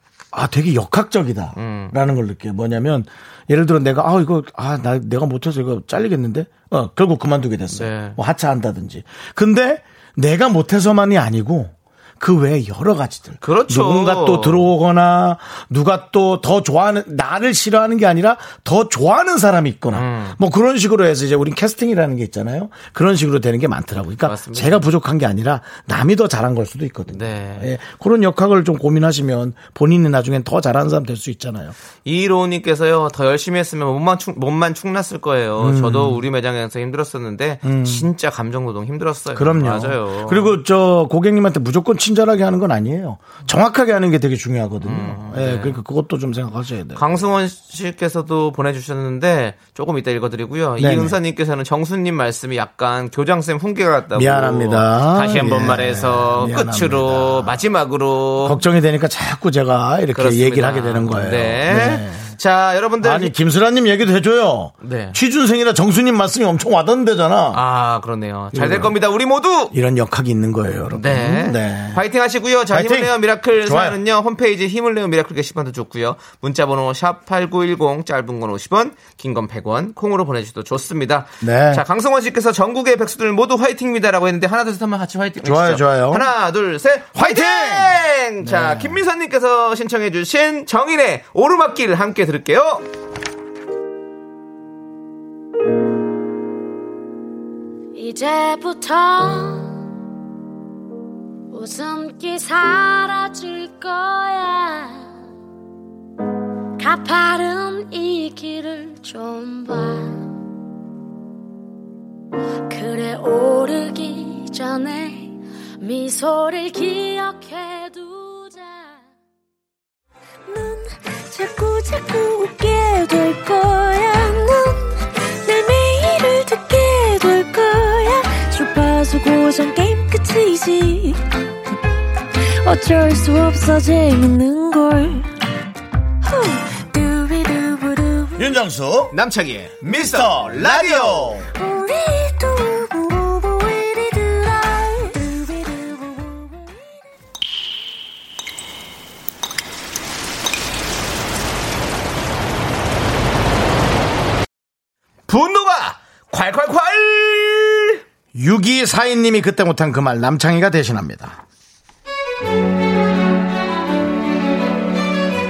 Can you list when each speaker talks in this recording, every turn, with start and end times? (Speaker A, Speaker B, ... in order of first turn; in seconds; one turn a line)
Speaker A: 0.3-31.7
Speaker B: 1.6-1.9
Speaker B: 7.7-8.2
Speaker B: 13.4-14.7
Speaker B: 19.9-20.4
Speaker B: 24.2-24.8
Speaker B: 27.1-27.7
Speaker B: 32.0-40.6
Speaker A: 35.6-36.2
Speaker A: 37.6-38.1
Speaker A: 39.3-47.0
Speaker B: 44.8-45.8
Speaker B: 46.9-58.6
Speaker A: 50.8-51.2
Speaker A: 54.1-57.6
Speaker A: 58.4-62.3
Speaker B: 60.1-63.3
Speaker A: 63.0-67.6
Speaker B: 64.8-65.2
Speaker B: 67.5-69.7
Speaker A: 68.5-68.9
Speaker A: 69.7-72.0
Speaker B: 70.9-92.8
Speaker A: 72.7-74.0
Speaker A: 81.4-81.8
Speaker A: 85.4-86.3
Speaker A: 87.1-89.0
Speaker C: 97.9-99.8
Speaker C: 101.5-105.1
Speaker C: 106.8-110.3
Speaker C: 112.7-119.1
Speaker D: 120.5-131.2
Speaker D: 132.5-135.3
Speaker D: 136.2-138.5
Speaker A: 138.4-139.1
Speaker B: 139.1-141.4
Speaker A: 139.8-141.5
Speaker D: 141.5-146.8
Speaker B: 155.3-158.0
Speaker A: 158.3-161.4